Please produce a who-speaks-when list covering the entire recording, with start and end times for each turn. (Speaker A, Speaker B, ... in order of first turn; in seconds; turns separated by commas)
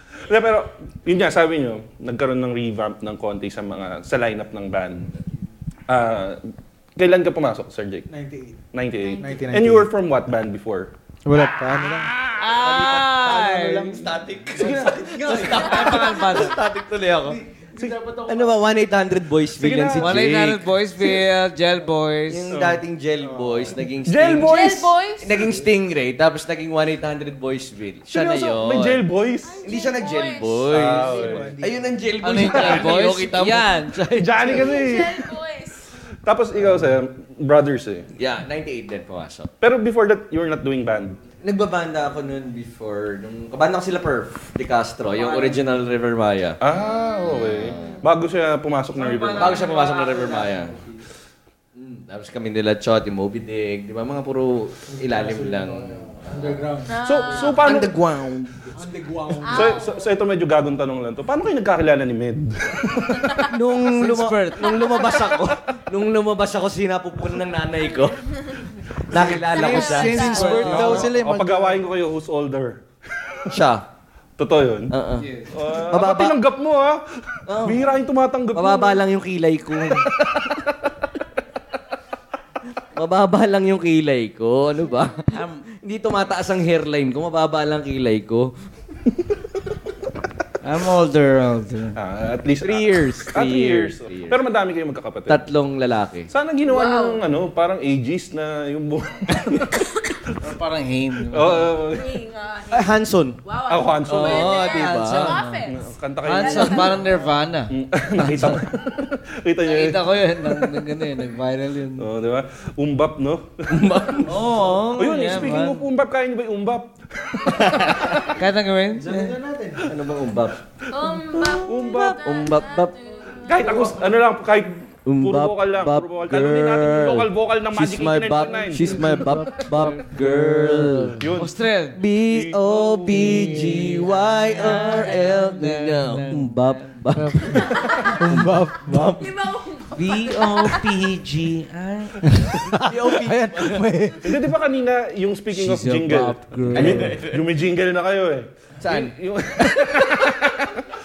Speaker A: 0.3-5.1, Speaker A: 5.9-6.4, Speaker A: 7.0-8.1, Speaker B: 8.1-8.6, Speaker A: 8.7-10.9, Speaker C: 9.0-9.4, Speaker B: 9.2-9.9, Speaker B: 11.2-12.1, Speaker D: 12.2-14.1, Speaker E: 12.6-17.4, Speaker B: 13.3-15.8, Speaker D: 15.3-16.6, Speaker B: 17.3-18.6, Speaker E: 18.2-20.7, Speaker A: 19.6-20.2, Speaker D: 20.0-22.5, Speaker E: 22.3-24.6, Speaker A: 22.5-22.8, Speaker B: 23.2-23.8, Speaker A: 24.1-24.9, Speaker C: 24.4-25.3, Speaker E: 25.2-29.0, Speaker A: 28.1-29.6, Speaker C: 29.4-31.4, Speaker E: 29.6-33.8, Speaker A: 30.6-31.6, Speaker B: 31.1-31.9, Speaker D: 32.2-34.8, Speaker A: 34.1-35.3, Speaker C: 34.4-35.9, Speaker A: 36.2-38.1, Speaker E: 38.2-39.5, Speaker A: 39.6-41.2, Speaker E: 41.4-46.6, Speaker D: 45.2-45.5, Speaker A: 46.6-49.7, Speaker E: 47.2-48.1, Speaker C: 47.6-47.9, Speaker D: 49.0-50.7, Speaker E: 49.4-50.8, Speaker E: 51.8-56.6, Speaker B: 54.9-57.0, Speaker C: 56.9-57.8, Speaker A: 57.0-58.0, Speaker E: 57.6-58.5, Speaker B: 57.6-60.1, Speaker C: 59.4-60.0, Speaker A: 59.5-63.4, Speaker E: 63.5-68.2, Speaker D: 63.6-65.2, Speaker E: 69.1-71.1, Speaker C: 69.2-70.7, Speaker D: 69.5-71.0, Speaker A: 70.5-72.8, Speaker B: 70.7-71.8, Speaker E: 73.5-73.8, Speaker A: 74.4-74.9, Speaker E: 74.9-76.4, Speaker D: 75.2-75.5, Speaker A: 75.5-79.0, Speaker E: 77.5-78.0, Speaker E: 78.5-80.1, Speaker E: 83.0-88.5, Speaker D: 85.3-85.6, Speaker D: 90.6-92.0, Speaker A: 92.0-95.4, Speaker E: 92.6-94.4, Speaker E: 95.3-96.3, Speaker A: 96.3-99.8, Speaker C: 96.6-97.2, Speaker D: 100.4-101.7, Speaker A: 101.3-102.1, Speaker C: 101.9-107.3, Speaker E: 102.7-103.4, Speaker A: 103.7-104.7, Speaker E: 104.0-105.5, Speaker D: 104.5-105.7, Speaker A: 105.7-107.0, Speaker D: 106.2-108.6, Speaker A: 107.7-110.5, Speaker D: 109.6-112.1, Speaker A: 112.0-114.3, Speaker E: 113.7-114.9, Speaker D: 114.2-115.9, Speaker A: 115.0-117.9, Speaker D: 117.8-119.3, Speaker B: 118.9-119.9, Speaker E: 119.8-120.6, Speaker C: 120.9-123.9, Speaker E: 121.3-123.0, Speaker A: 121.6-122.2, Speaker A: 123.4-129.3, Speaker E: 123.6-124.0, Speaker E: 125.0-131.3, Speaker B: 129.0-131.2, Speaker A: 131.2-131.6, Speaker D: 131.4-132.0, Speaker E: 131.9-139.3, Speaker A: 132.3-132.9, Speaker D: 133.1-137.0, Speaker B: 137.1-139.2, Speaker C: 137.8-138.2, Speaker C: 139.2-140.9, Speaker D: 139.9-142.6, Speaker E: 142.8-143.9, Speaker B: 142.8-144.5, Speaker A: 144.2-150.8, Speaker D: 145.5-147.2, Speaker E: 146.7-147.5, Speaker E: 148.8-149.2